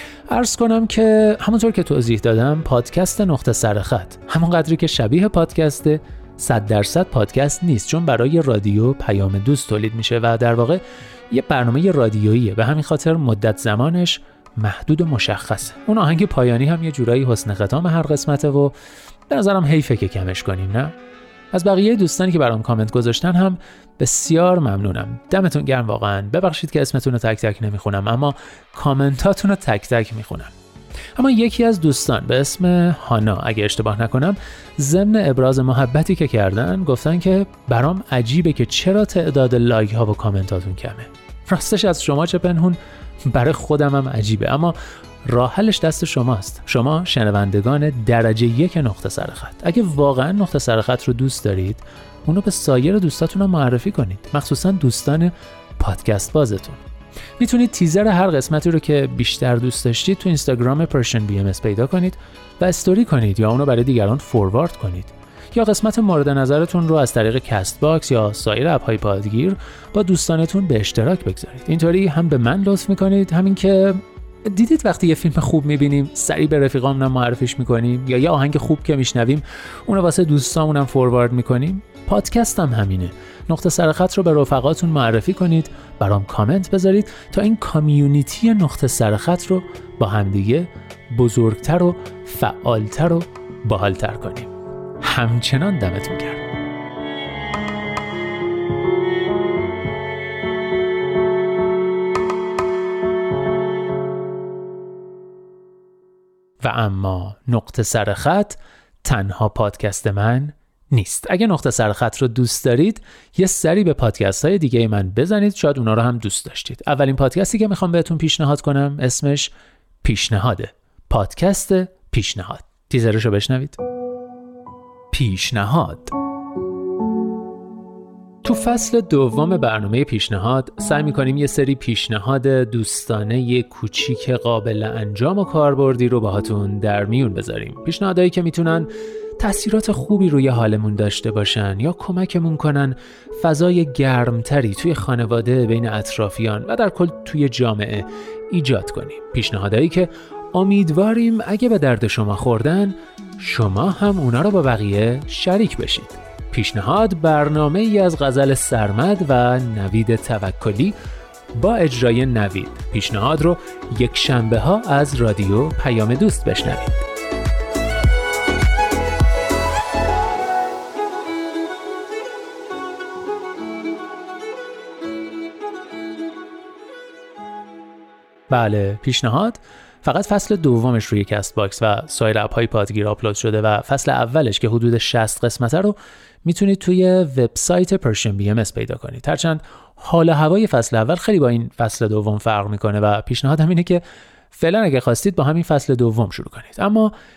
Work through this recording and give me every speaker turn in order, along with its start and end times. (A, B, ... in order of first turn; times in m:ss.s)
0:00.3-0:18.7 A
0:19.3-0:20.9 A
0:21.5-0:30.5 A
0:31.2-0:56.8 A
0:57.4-1:34.5 A
1:35.0-1:36.4 A
1:46.6-1:59.5 A
2:00.0-2:03.8 A
2:05.1-2:06.1 A
2:08.4-2:41.0 A
2:41.6-2:47.0 A
2:58.5-3:17.1 A